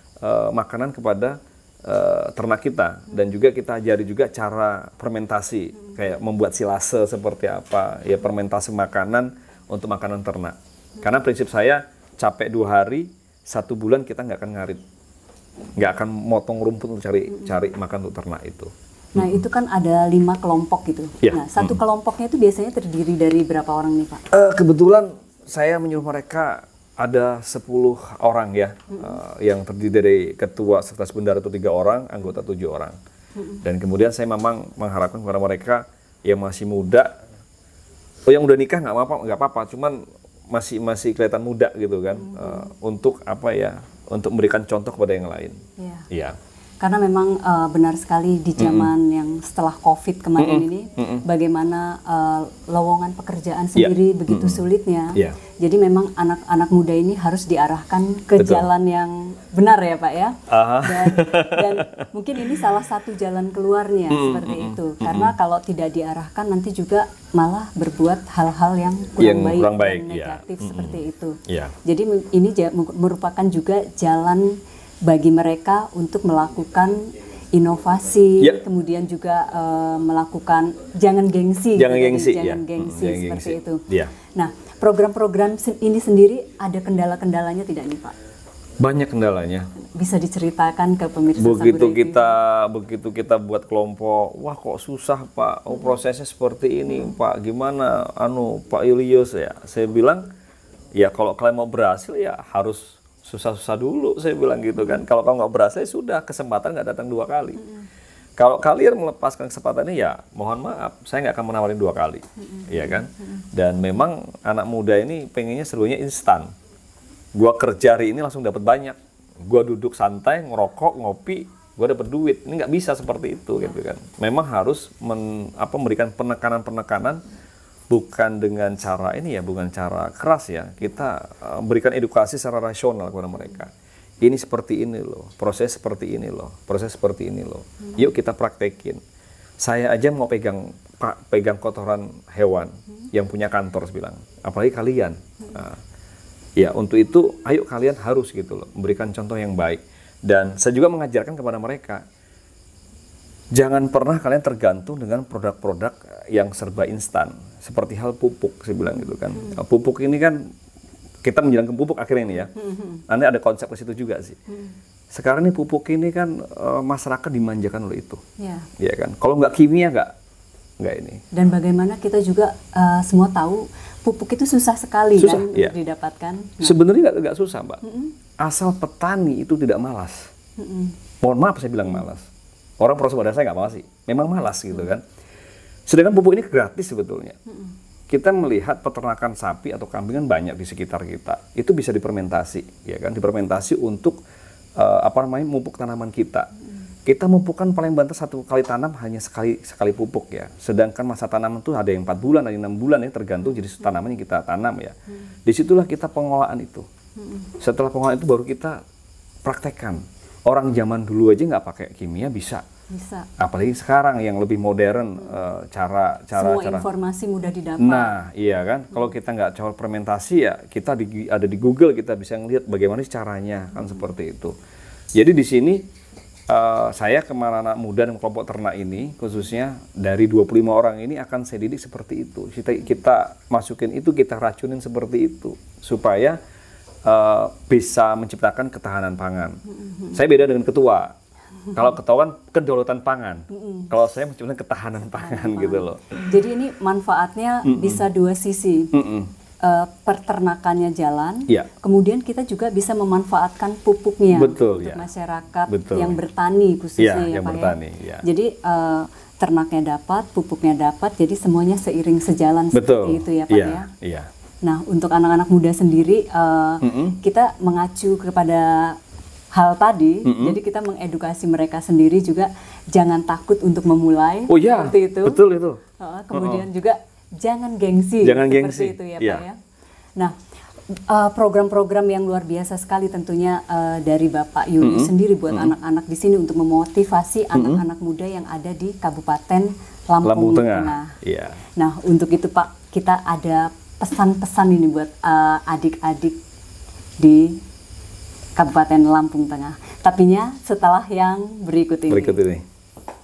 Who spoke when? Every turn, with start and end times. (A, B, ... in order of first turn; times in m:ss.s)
0:00.2-0:14.8 A
0:15.8-0:19.4 A
0:19.2-0:24.2 B
0:21.2-0:21.8 A
0:24.3-0:33.0 A
0:33.6-0:37.1 A
0:38.3-0:40.0 A
0:40.5-0:45.6 A
0:42.2-0:42.7 B
0:45.8-0:46.1 B
0:46.1-0:46.4 A
0:46.8-1:28.2 B
0:48.6-0:48.9 A
0:50.4-0:51.2 A
0:53.8-0:55.4 A
0:58.4-0:58.7 A
1:00.5-1:02.0 A
1:04.1-1:05.3 A
1:09.2-1:11.8 A
1:21.8-1:24.1 A
1:28.8-1:29.7 A
1:30.0-1:32.4 B
1:31.4-1:40.3 A
1:41.0-1:47.6 A
1:47.6-1:47.9 B
1:48.4-1:56.5 A
1:52.5-1:53.4 B
1:57.4-2:07.2 A
2:07.9-2:19.0 A
2:19.6-2:25.8 A
2:26.6-2:32.0 A
2:33.5-2:40.4 A
2:41.2-2:42.5 A
2:42.6-2:43.0 B
2:43.1-2:44.4 A
2:45.1-2:48.2 A
2:48.4-2:48.7 B
2:48.8-2:50.1 A
2:50.8-2:51.2 A
2:51.3-2:56.8 B
2:55.2-2:55.8 A
2:56.6-2:57.8 A
2:57.8-2:58.1 B
2:58.4-3:00.3 A
3:00.6-3:01.0 B
3:01.2-3:02.3 A
3:02.8-3:05.0 A
3:05.9-3:07.4 A
3:08.1-3:14.2 A
3:14.8-3:16.5 A
3:17.1-3:25.0 A
3:25.5-3:26.9 A
3:27.2-3:27.5 B
3:27.6-3:28.8 A
3:29.4-3:32.6 A
3:32.9-3:33.3 B
3:33.4-3:36.9 A
3:36.4-3:38.1 B
3:37.8-3:44.6 A
3:45.2-3:45.8 A
3:46.5-3:56.4 A
3:57.1-3:59.6 A
3:59.8-4:00.2 B
4:00.1-4:01.1 A
4:01.8-4:06.2 A
4:03.5-4:03.9 B
4:05.1-4:08.9 B
4:07.6-4:08.1 A
4:08.9-4:09.3 A
4:09.6-4:23.9 B
4:14.3-4:15.0 A
4:15.7-4:16.2 A
4:17.0-4:18.2 A
4:22.7-4:24.3 A
4:24.6-4:29.0 B
4:26.8-4:27.2 A
4:29.5-4:35.4 B
4:30.2-4:30.6 A
4:34.5-4:35.8 A
4:36.0-4:39.6 B
4:36.3-4:36.7 A
4:38.2-4:39.4 A
4:40.9-4:51.1 B
4:44.8-4:45.7 A
4:47.5-4:47.8 A
4:50.2-4:51.6 A
4:51.8-4:56.4 B
4:57.2-4:57.6 B
4:58.6-5:02.4 B
5:02.1-5:02.6 A